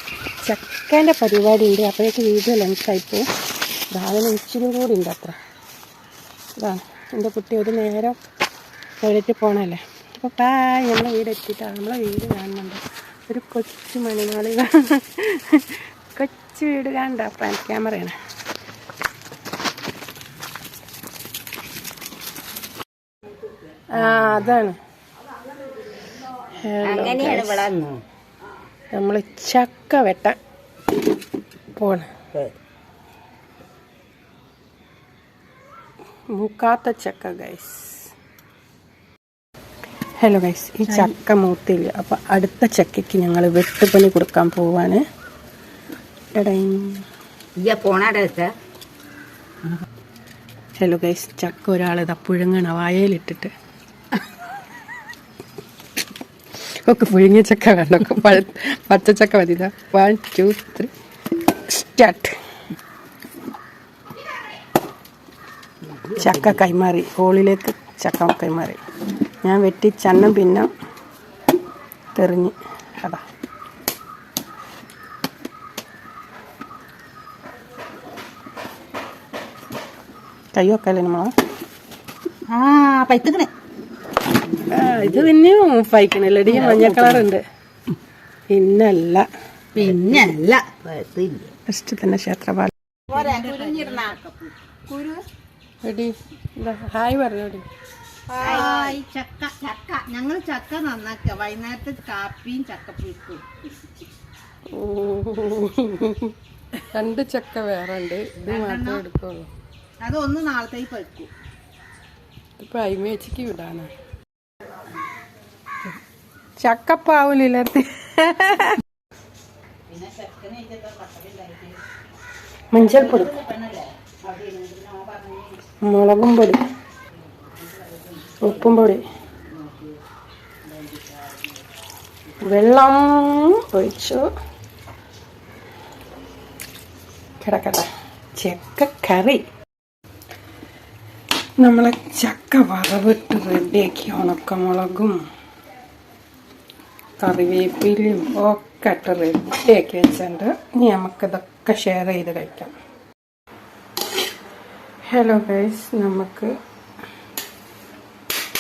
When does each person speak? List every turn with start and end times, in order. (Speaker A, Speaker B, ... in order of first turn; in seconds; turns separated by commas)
Speaker A: 0.4-3.3, Speaker A: 3.9-5.4, Speaker A: 6.6-8.2, Speaker A: 9.0-18.1, Speaker A: 23.9-24.8, Speaker B: 24.0-24.4, Speaker A: 26.6-27.7, Speaker B: 26.8-28.0, Speaker A: 28.9-30.4, Speaker A: 31.8-32.1, Speaker A: 36.3-38.1, Speaker A: 40.2-45.0, Speaker A: 46.3-47.0, Speaker B: 47.6-48.5, Speaker A: 50.8-53.5, Speaker A: 56.6-60.9, Speaker A: 61.6-62.4, Speaker B: 66.0-66.5, Speaker A: 66.2-68.8, Speaker A: 69.4-70.7, Speaker A: 72.2-73.2, Speaker A: 80.5-81.3, Speaker C: 82.5-83.3, Speaker A: 84.7-87.4, Speaker B: 84.7-85.3, Speaker B: 86.5-87.3, Speaker A: 88.5-89.3, Speaker B: 89.8-91.5, Speaker A: 91.7-92.7, Speaker C: 93.1-95.2, Speaker B: 93.1-94.0, Speaker A: 95.8-97.7, Speaker C: 98.3-103.5, Speaker B: 98.4-99.0, Speaker A: 104.7-106.3, Speaker A: 106.9-109.5, Speaker C: 108.5-109.0, Speaker C: 110.0-111.3, Speaker A: 112.6-113.9, Speaker A: 116.6-118.8, Speaker C: 119.9-121.8, Speaker B: 119.9-120.2, Speaker A: 122.7-123.4, Speaker C: 123.0-123.8, Speaker B: 124.3-125.5, Speaker C: 124.9-125.5, Speaker A: 125.8-126.6, Speaker B: 127.8-128.5, Speaker A: 128.4-129.0, Speaker B: 129.6-129.9, Speaker A: 132.4-134.3, Speaker A: 137.4-139.4, Speaker A: 141.6-145.2, Speaker A: 147.2-152.7, Speaker A: 155.1-156.5